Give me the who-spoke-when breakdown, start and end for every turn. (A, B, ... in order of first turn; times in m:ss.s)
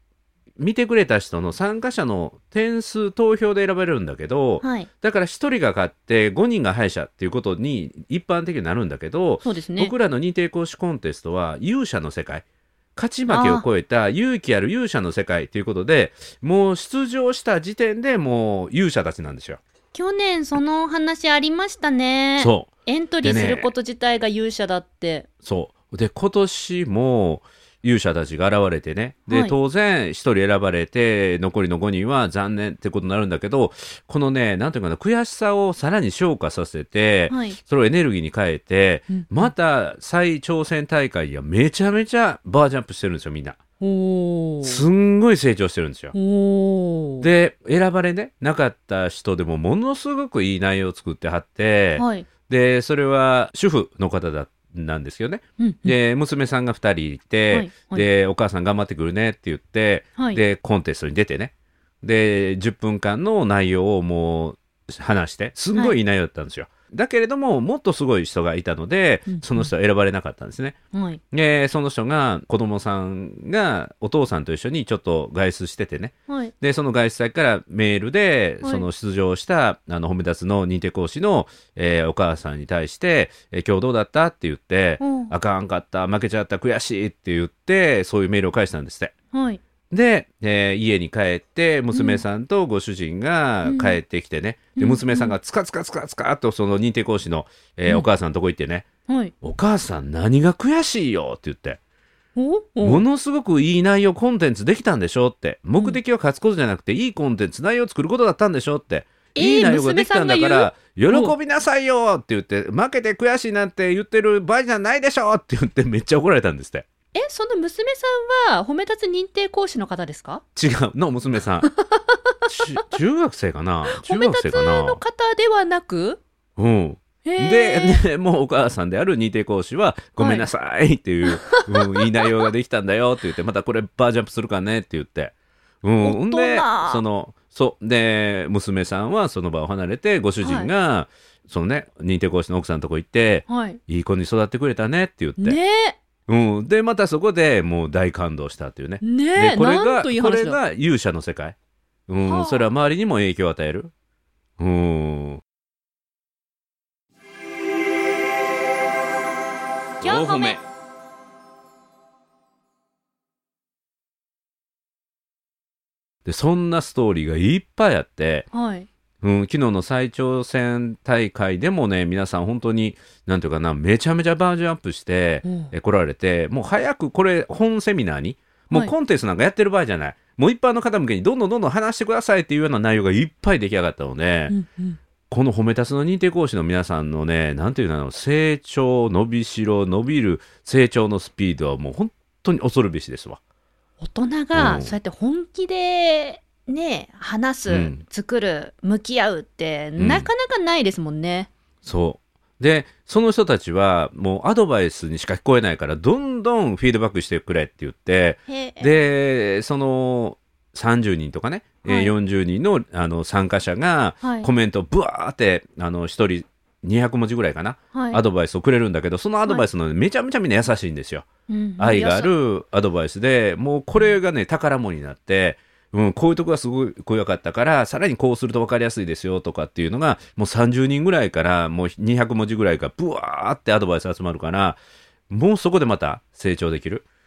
0:00.6-0:12.4 A
0:04.6-0:04.9 B
0:09.4-0:09.9 B
0:13.0-0:19.6 A
0:13.3-0:13.6 B
0:19.9-0:25.3 B
0:22.4-0:22.7 A
0:23.2-0:23.7 A
0:25.4-0:43.6 A
0:29.3-0:29.6 B
0:37.3-0:37.6 B
0:39.1-0:39.5 B
0:43.8-0:44.8 B
0:44.6-0:46.1 A
0:46.1-0:47.3 B
0:47.2-1:10.8 A
0:52.0-0:52.3 B
0:55.6-0:56.0 B
0:57.5-0:58.1 B
1:09.3-1:09.7 B
1:10.9-1:11.2 B
1:11.3-1:29.1 A
1:16.3-1:16.5 B
1:25.0-1:25.3 B
1:29.3-1:29.6 B
1:29.9-1:38.9 A
1:31.9-1:32.2 B
1:33.6-1:34.0 B
1:34.8-1:35.4 B
1:39.1-1:39.3 B
1:39.4-1:41.8 A
1:42.4-1:43.0 B
1:42.8-1:56.9 A
1:49.4-1:51.4 B
1:57.1-2:00.4 B
2:00.6-2:01.7 A
2:01.8-2:02.4 B
2:02.5-2:05.0 A
2:03.9-2:06.2 B
2:06.6-2:25.6 A
2:07.2-2:08.0 B
2:10.2-2:10.5 B
2:11.2-2:12.4 B
2:16.0-2:17.0 B
2:20.4-2:20.7 B
2:23.5-2:23.8 B
2:25.4-2:26.0 B
2:26.3-2:31.6 A
2:29.0-2:30.6 B
2:32.1-2:33.9 A
2:32.2-2:32.6 B
2:34.6-2:35.4 A
2:40.0-2:40.6 B
2:40.0-2:40.6 A
2:46.2-2:48.5 A
2:48.5-2:48.9 B
2:49.2-3:04.5 A
2:55.4-2:55.7 B
3:04.5-3:05.0 B
3:05.3-3:13.4 A
3:14.0-3:21.5 B
3:14.5-3:14.9 A
3:17.7-3:18.0 A
3:20.0-3:20.3 A
3:21.8-3:57.0 A
3:28.5-3:29.0 B
3:31.8-3:32.1 B
3:34.2-3:34.5 B
3:37.9-3:38.2 B
3:41.5-3:42.3 B